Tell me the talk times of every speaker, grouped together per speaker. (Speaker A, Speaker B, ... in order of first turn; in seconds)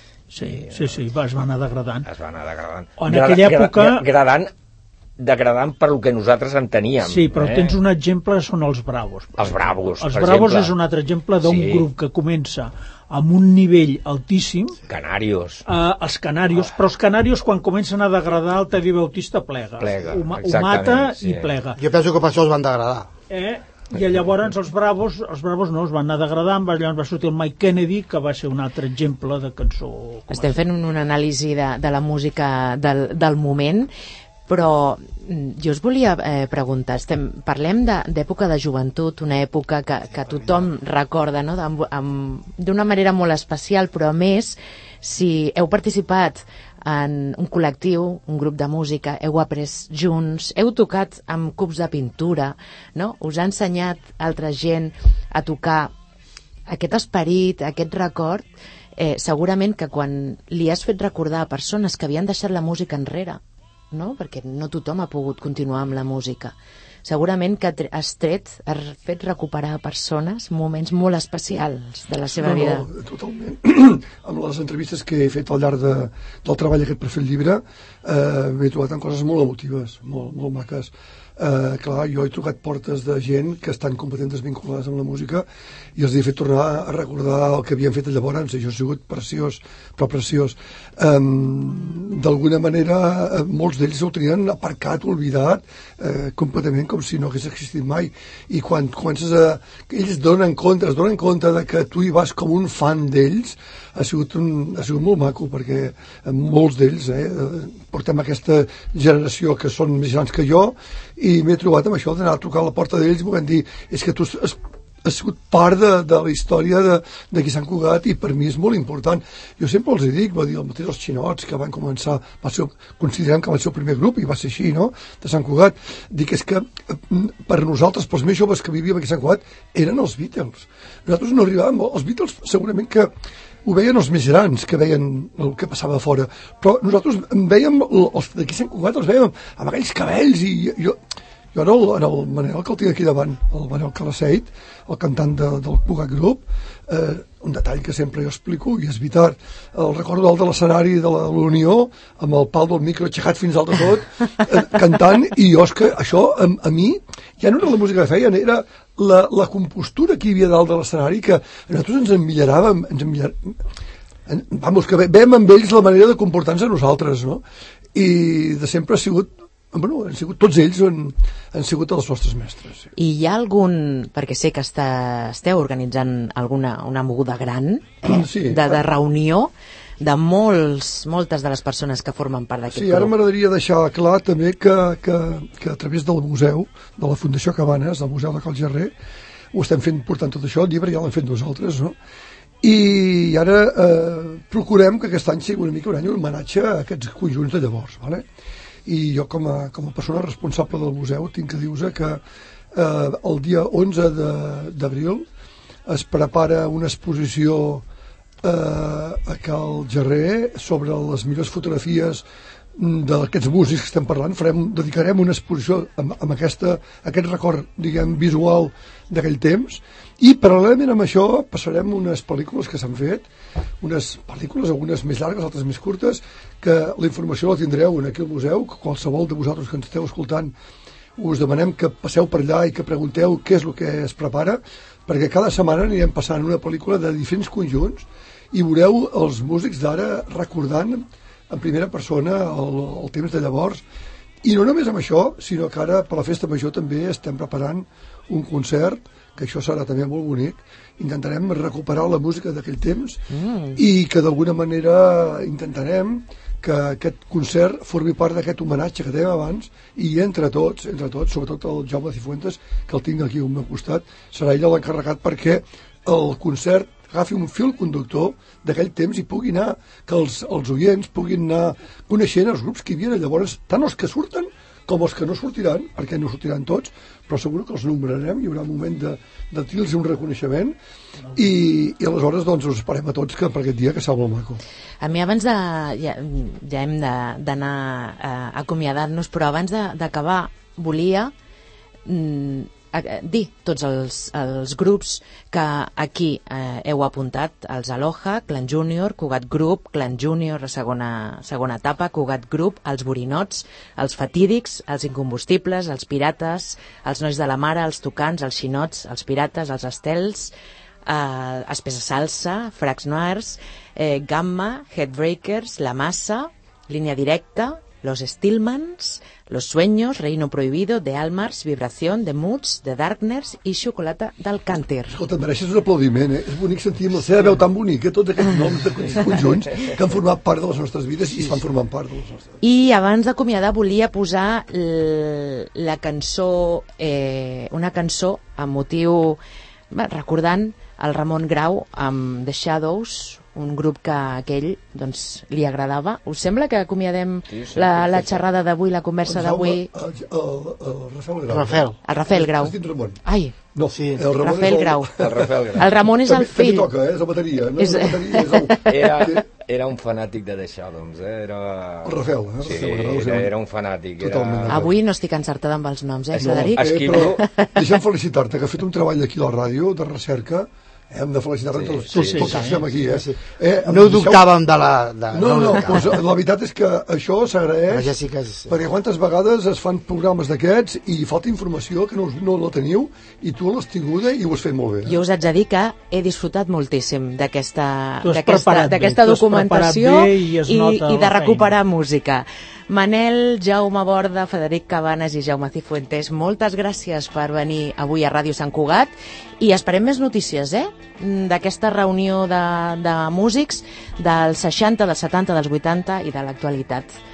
Speaker A: 0.3-2.1, 3.0-4.1, 7.0-14.8, 15.7-21.8, 23.3-30.6, 372.1-372.8, 388.2-391.7
Speaker B: 0.4-0.9, 2.0-4.5, 5.2-7.7, 9.4-10.7, 11.4-11.9, 14.9-15.7, 19.8-21.5, 347.5-348.4, 355.2-355.9, 358.9-364.8, 366.3-367.4, 371.7-372.6
Speaker C: 21.8-23.1, 40.1-40.7, 351.5-352.0, 353.9-354.2, 372.6-376.2, 377.9-378.8
Speaker D: 30.3-33.9, 34.5-55.9, 56.7-58.4, 59.0-63.4, 63.9-72.9, 173.0-183.1, 253.3-253.8, 285.0-291.3, 292.1-310.5, 311.1-325.2, 332.6-339.4, 339.9-349.9, 352.0-353.6, 354.3-355.1, 355.7-356.9, 357.8-358.7, 364.7-367.8, 385.1-407.1
Speaker E: 72.2-133.1, 133.6-141.0, 141.5-163.6, 164.3-167.4, 167.9-172.9, 178.0-178.8, 182.7-188.9, 189.5-191.9, 192.6-198.2, 198.9-202.2, 202.7-205.3, 205.9-207.9, 208.4-212.2, 212.8-223.3, 223.8-230.5, 231.2-243.8, 244.4-253.2, 253.8-280.8, 281.4-284.6, 325.1-332.5, 349.3-353.2, 353.8-359.4, 362.0-363.6, 364.2-364.9, 366.8-374.4, 375.3-378.1, 378.7-385.2